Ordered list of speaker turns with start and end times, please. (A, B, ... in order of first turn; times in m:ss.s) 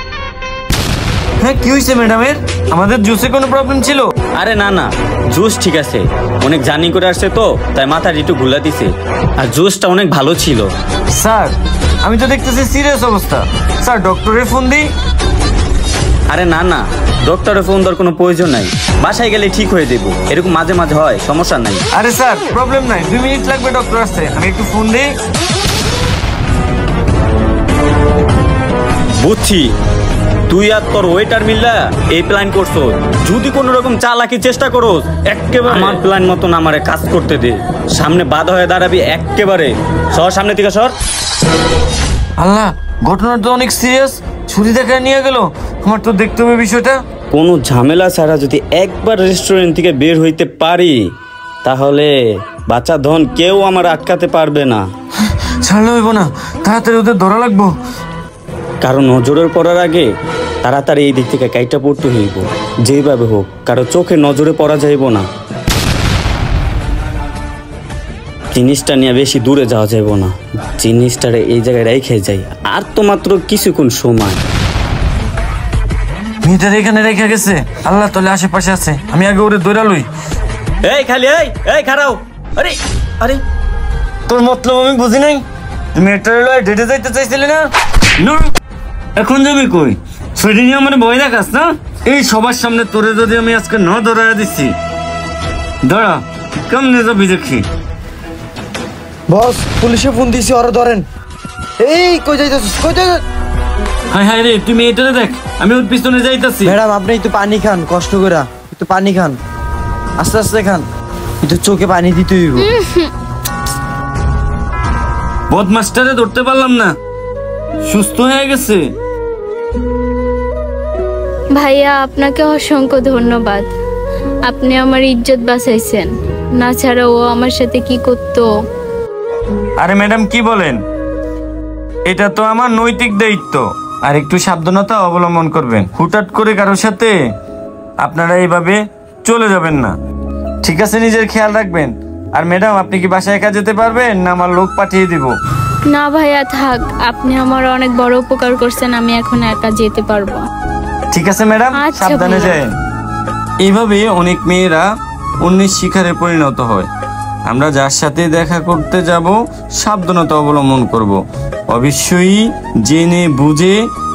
0:01.4-0:04.1 A
0:04.4-0:10.7 B
0:11.1-0:14.9 A
0:16.3-0:21.8 B
0:21.9-0:25.1 A
0:29.2-0:29.7 B
0:30.5-0:41.0 B
0:35.3-0:36.0 A
0:42.4-0:47.0 A
0:47.3-0:51.0 B
0:51.6-0:52.1 B
0:52.6-0:54.9 B
0:55.6-0:57.8 A
0:58.8-1:00.1 B
1:00.6-1:05.3 B
1:08.5-1:14.4 B
1:16.4-1:20.1 A
1:20.8-1:22.8 B
1:24.3-1:27.7 A
1:28.2-1:28.5 A
1:29.2-1:34.8 A
1:35.8-1:37.7 A
1:39.3-1:41.1 C
1:41.8-1:43.2 C
1:44.1-1:46.8 A
1:46.6-1:49.4 C
1:50.2-1:50.9 C
1:51.4-1:52.7 C
1:52.6-1:53.1 D
1:55.5-1:57.0 A
1:57.8-1:58.9 A
2:01.6-2:03.7 D
2:04.5-2:08.5 D
2:09.8-2:10.8 A
2:12.1-2:17.2 A
2:18.0-2:19.9 A
2:20.6-2:25.4 A
2:25.9-2:30.4 D
2:31.1-2:32.7 A
2:31.7-2:32.6 D
2:33.6-2:34.9 A
2:35.4-2:36.9 A
2:37.5-2:41.2 A
2:41.7-2:43.8 A